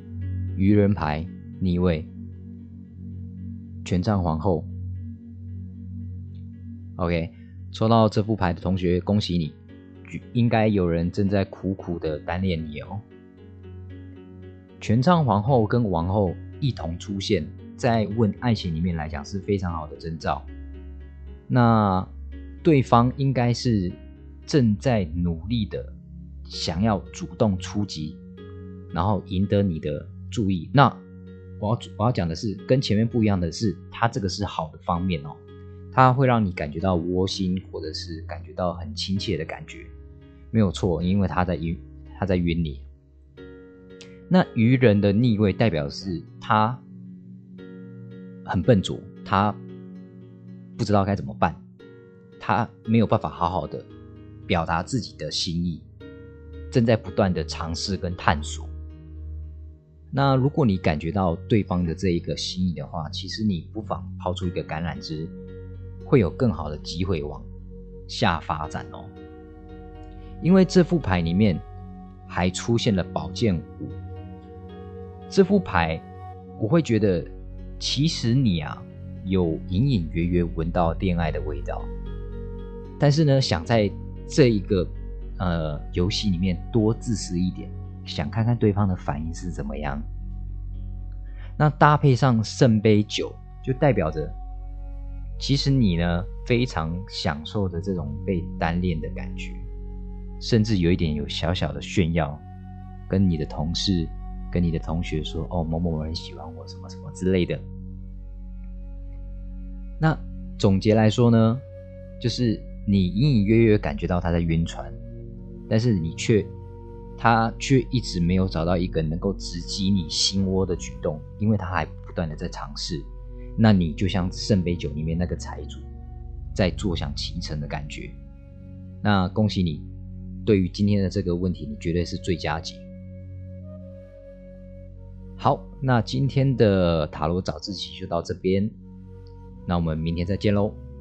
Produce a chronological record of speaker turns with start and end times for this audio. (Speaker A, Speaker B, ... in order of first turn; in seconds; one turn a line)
Speaker A: 0.6-2.1
Speaker A: 3.8-4.7
Speaker A: 7.0-13.0
Speaker A: 14.8-20.5
Speaker A: 21.5-22.1
Speaker A: 22.6-25.9
Speaker A: 26.5-28.2
Speaker A: 28.9-31.0
Speaker A: 31.6-35.4
Speaker A: 35.9-39.9
Speaker A: 40.5-42.9
Speaker A: 44.3-46.8
Speaker A: 48.5-49.6
Speaker A: 50.8-51.6
Speaker A: 52.4-53.9
Speaker A: 54.5-55.9
Speaker A: 56.7-58.7
Speaker A: 60.1-65.3
Speaker A: 66.0-67.5
Speaker A: 68.1-69.1
Speaker A: 70.4-71.6
Speaker A: 72.3-74.0
Speaker A: 75.3-76.0
Speaker A: 76.6-81.9
Speaker A: 83.0-90.0
Speaker A: 91.6-94.3
Speaker A: 95.4-99.7
Speaker A: 100.4-102.4
Speaker A: 103.1-107.6
Speaker A: 110.0-111.6
Speaker A: 112.2-115.0
Speaker A: 115.7-116.5
Speaker A: 117.2-125.8
Speaker A: 126.5-128.1
Speaker A: 129.0-129.8
Speaker A: 130.4-132.8
Speaker A: 135.4-138.7
Speaker A: 139.7-140.8